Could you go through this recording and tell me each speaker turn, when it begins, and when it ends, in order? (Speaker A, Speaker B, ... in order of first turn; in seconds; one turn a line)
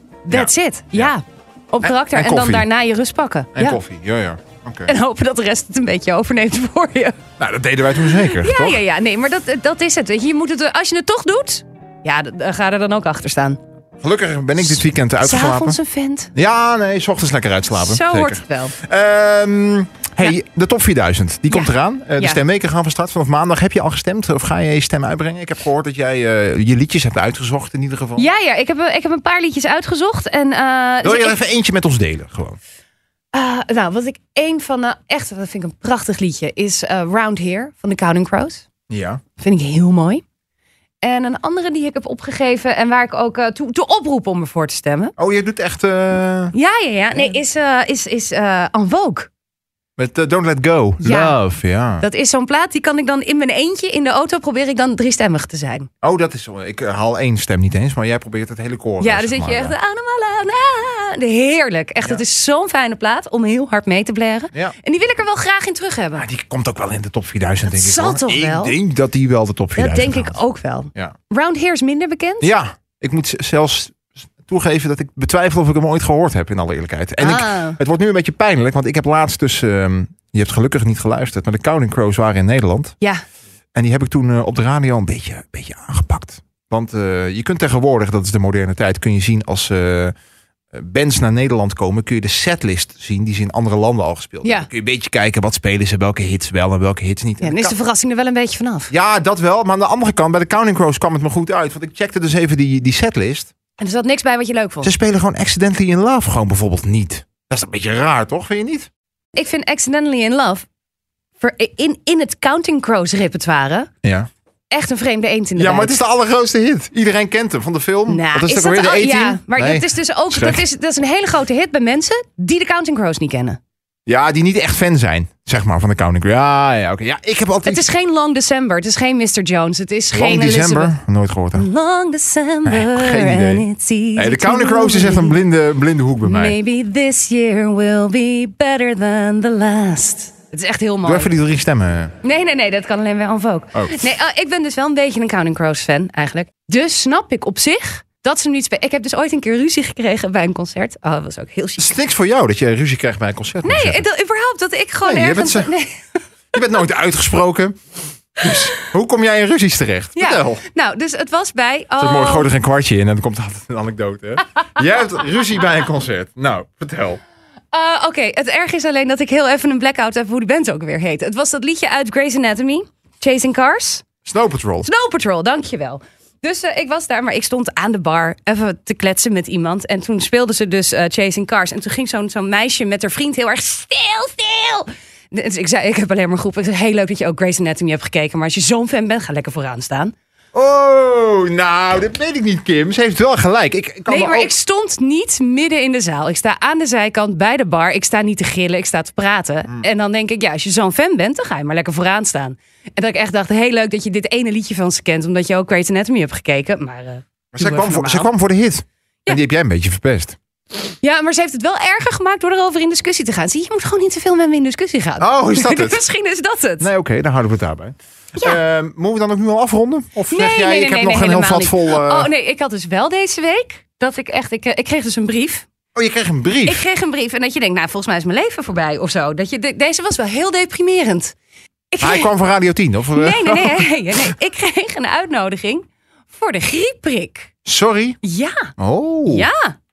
Speaker A: 0.2-3.8
Speaker B: 0.3-1.1
Speaker B: 1.8-2.7
Speaker B: 3.5-4.9
Speaker A: 4.8-7.2
Speaker B: 7.4-8.8
Speaker A: 8.0-13.6
Speaker B: 14.0-15.8
Speaker A: 14.6-16.3
Speaker B: 16.3-28.2
Speaker A: 17.7-18.8
Speaker A: 21.5-22.4
Speaker A: 28.1-31.4
Speaker B: 31.0-32.6
Speaker A: 33.3-38.6
Speaker B: 38.9-39.2
Speaker A: 39.4-40.2
Speaker A: 41.0-45.1
Speaker B: 45.2-46.5
Speaker A: 46.5-49.3
Speaker B: 50.0-52.0
Speaker A: 51.0-51.4
Speaker A: 52.0-55.9
Speaker B: 56.0-59.7
Speaker A: 59.0-66.2
Speaker B: 66.2-70.4
Speaker A: 67.7-68.8
Speaker A: 69.8-72.5
Speaker B: 72.4-83.0
Speaker A: 77.2-77.8
Speaker B: 83.7-90.1
Speaker B: 90.7-97.7
Speaker A: 97.4-98.9
Speaker B: 98.9-103.5
Speaker A: 103.8-104.9
Speaker B: 104.8-108.9
Speaker A: 109.3-110.7
Speaker A: 111.4-113.9
Speaker B: 114.0-114.3
Speaker A: 114.7-116.0
Speaker B: 115.5-120.6
Speaker A: 118.1-123.6
Speaker B: 124.0-127.8
Speaker A: 127.7-131.0
Speaker B: 130.1-131.7
Speaker A: 131.5-135.4
Speaker B: 132.7-136.6
Speaker A: 136.2-141.3
Speaker B: 141.0-142.1
Speaker A: 142.2-151.9
Speaker B: 143.7-144.1
Speaker B: 151.8-154.0
Speaker A: 153.6-156.2
Speaker B: 155.0-155.8
Speaker B: 156.5-157.8
Speaker B: 158.4-160.6
Speaker A: 160.2-162.5
Speaker B: 162.0-167.2
Speaker A: 167.7-174.0
Speaker B: 174.2-174.9
Speaker A: 174.8-190.1
Speaker B: 190.5-194.5
Speaker A: 194.1-208.3
Speaker B: 207.5-210.4
Speaker A: 211.0-216.9
Speaker B: 215.2-216.0
Speaker B: 216.8-222.3
Speaker A: 220.3-225.7
Speaker B: 225.9-226.8
Speaker A: 226.7-231.3
Speaker A: 231.9-232.3
Speaker B: 232.0-234.3
Speaker A: 233.1-237.5
Speaker B: 237.7-238.2
Speaker A: 238.2-238.7
Speaker B: 238.8-239.5
Speaker A: 239.3-239.7